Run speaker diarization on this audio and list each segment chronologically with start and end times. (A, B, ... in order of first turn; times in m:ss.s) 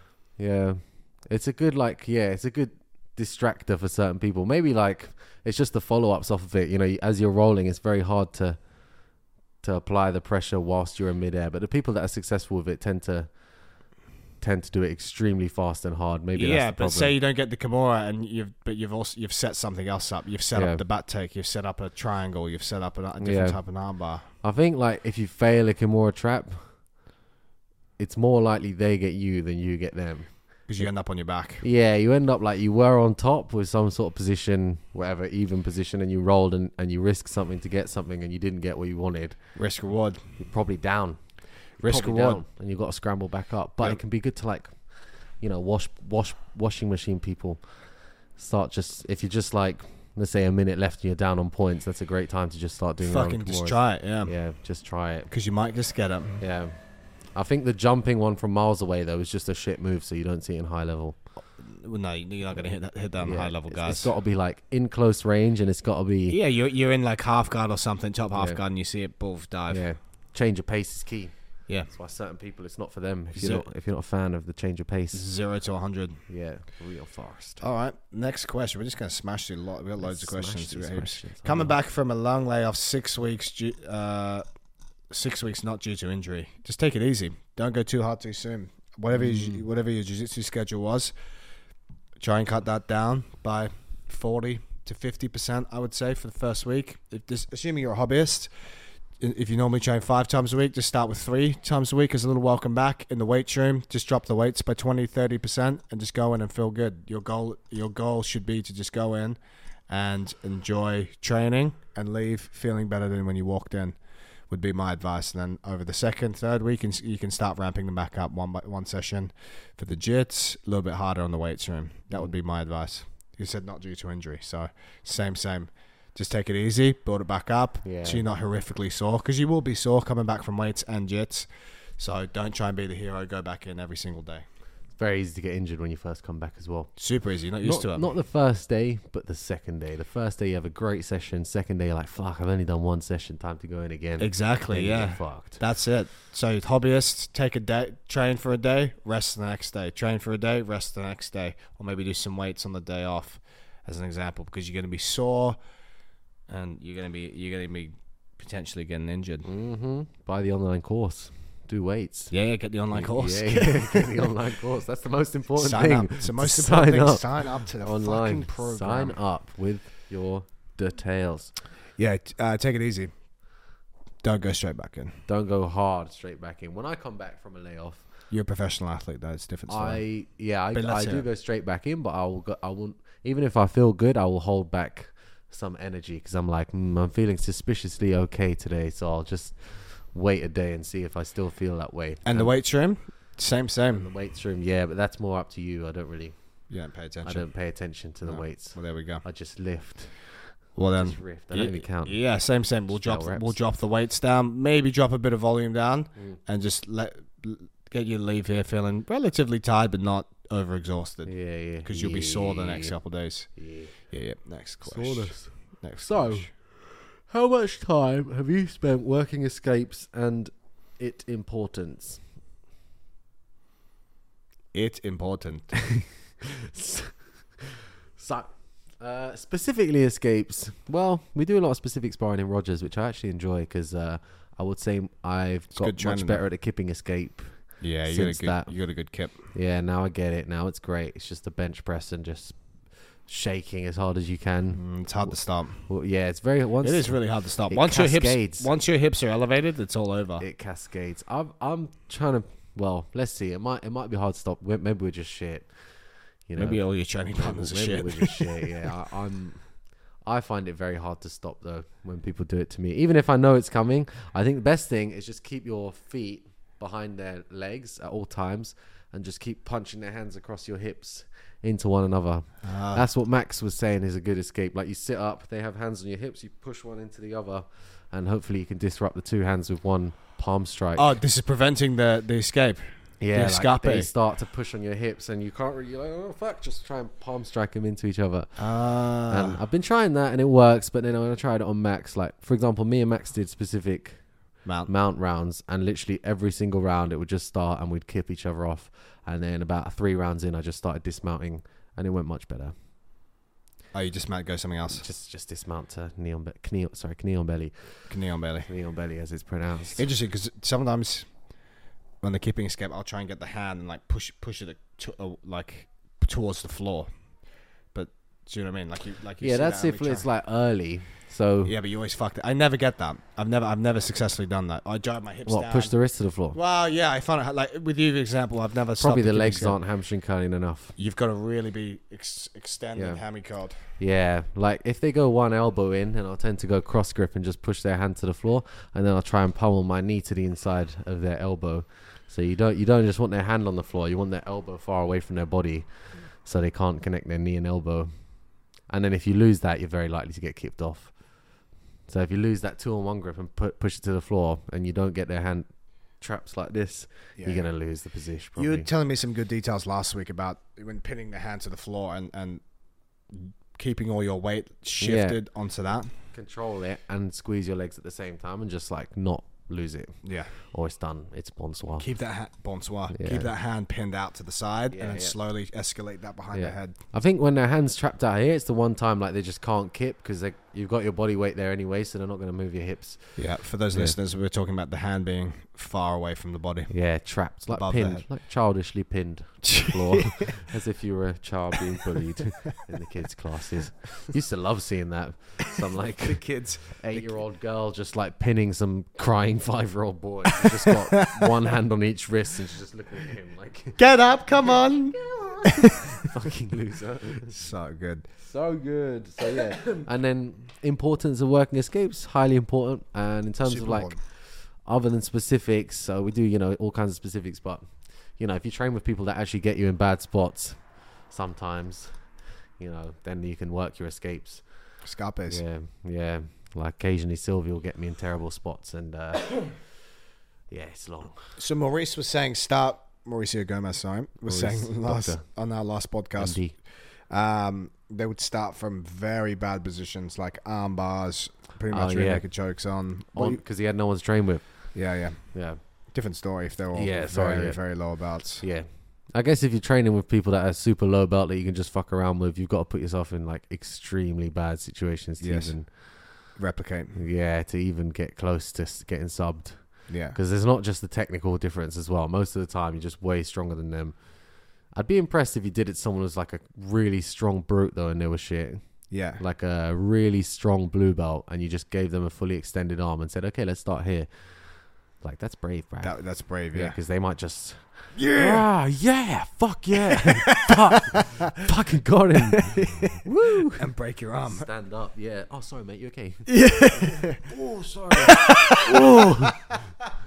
0:00.4-0:08.6 A
0:09.6-0:13.3 A
0:14.4-0:17.1 A
0:16.3-0:24.2 B
0:20.5-0:20.8 A
0:23.2-0:23.6 A
0:24.4-0:26.7 A
0:28.0-0:30.9 A
0:30.7-0:31.6 B
0:31.6-0:39.4 A
0:39.6-0:40.2 B
0:40.4-0:41.2 A
0:41.8-0:47.6 A
0:41.8-0:42.4 B
0:48.3-0:55.3 A
0:53.0-0:54.3 B
0:55.3-0:56.4 B
0:56.4-0:56.7 A
0:57.3-1:01.2 A
1:01.6-1:04.1 B
1:03.2-1:06.4 A
1:06.3-1:09.8 B
1:08.3-1:08.6 A
1:09.7-1:15.2 A
1:13.3-1:13.6 B
1:15.1-1:16.2 B
1:16.3-1:17.6 A
1:17.6-1:24.4 B
1:20.0-1:21.8 A
1:25.1-1:31.1 B
1:29.1-1:29.6 A
1:32.2-1:38.5 B
1:39.2-1:49.4 B
1:49.9-1:54.0 B
1:54.5-2:11.5 B
2:07.8-2:08.2 A
2:12.0-2:14.4 B
2:14.9-2:16.9 A
2:17.0-2:18.1 B
2:17.6-2:25.6 A
2:24.2-2:35.6 B
2:36.5-2:39.5 B
2:39.4-2:42.3 A
2:42.3-2:44.3 B
2:42.9-2:51.5 A
2:45.6-2:49.2 B
2:52.0-2:53.1 B
2:54.2-2:55.2 B
2:55.3-2:58.0 A
2:58.3-3:00.0 B
2:59.7-3:12.5 A
3:00.7-3:01.2 B
3:12.2-3:14.1 B
3:14.0-3:16.3 A
3:16.7-3:17.4 B
3:17.2-3:22.2 A
3:18.2-3:19.2 B
3:20.8-3:33.5 B
3:22.9-3:23.6 A
3:31.2-3:33.0 A
3:33.6-3:33.9 A
3:34.1-3:36.5 B
3:34.8-3:42.2 A
3:44.7-3:45.8 B
3:45.9-3:58.7 A
3:55.7-3:56.4 B
3:57.8-3:59.4 B
3:59.5-4:02.6 A
4:03.3-4:05.3 A
4:04.7-4:05.9 B
4:05.9-4:07.2 A
4:06.8-4:10.4 B
4:07.7-4:08.7 A
4:10.4-4:15.7 A
4:16.5-4:19.6 A
4:16.6-4:18.7 B
4:20.2-4:41.1 A
4:32.6-4:33.1 B
4:41.0-4:44.1 B
4:43.2-4:48.7 A
4:48.6-4:49.6 B
4:49.3-4:54.2 A
4:54.6-4:54.9 B
4:54.9-5:02.7 A
5:03.9-5:05.0 B
5:04.9-5:08.1 A
5:08.1-5:08.7 B
5:08.6-5:10.1 A
5:10.0-5:11.3 B
5:12.2-5:17.1 B
5:17.9-5:20.3 B
5:19.4-5:21.7 A
5:21.6-5:25.9 B
5:25.4-5:26.6 A
5:26.5-5:29.8 B
5:29.0-5:31.0 A
5:31.0-5:33.8 B
5:33.0-5:33.2 A
5:34.0-5:45.9 A
5:46.4-5:48.1 A
5:48.9-5:51.1 A
5:52.1-5:55.7 A
5:56.2-5:58.9 A
5:57.4-5:57.7 B
5:58.6-6:02.6 B
6:03.3-6:06.1 B
6:05.0-6:05.4 A
6:06.3-6:12.1 A
6:10.2-6:10.5 B
6:12.0-6:17.0 B
6:13.1-6:13.5 A
6:14.9-6:15.4 A
6:16.5-6:24.2 A
6:23.4-6:26.9 B
6:26.9-6:44.0 A
6:27.7-6:28.2 B
6:29.6-6:30.6 B
6:36.2-6:37.4 B
6:40.5-6:41.5 B
6:44.0-6:46.2 B
6:44.6-6:47.6 A
6:47.5-6:48.3 B
6:48.4-7:02.2 A
6:53.6-6:54.2 B
7:02.8-7:04.6 A
7:05.0-7:05.6 B
7:05.5-7:09.9 A
7:10.7-7:11.6 A
7:11.6-7:16.6 B
7:14.4-7:15.4 A
7:16.4-7:16.7 A
7:17.3-7:23.6 B
7:21.9-7:22.4 A
7:23.3-7:24.7 A
7:24.9-7:25.4 B
7:25.5-7:25.8 A
7:26.1-7:28.6 B
7:26.9-7:27.8 A
7:28.6-7:35.9 A
7:35.4-7:35.7 B
7:36.5-7:37.2 B
7:37.1-7:44.2 A
7:40.1-7:40.4 B
7:44.9-7:48.8 A
7:49.1-7:49.4 B
7:49.4-7:56.2 A
7:56.0-7:57.0 B
7:56.7-8:03.9 A
7:58.1-7:58.6 B
8:00.1-8:01.7 B
8:02.5-8:03.2 B
8:03.7-8:04.7 B
8:04.4-8:09.8 A
8:06.5-8:07.5 B
8:08.1-8:09.7 B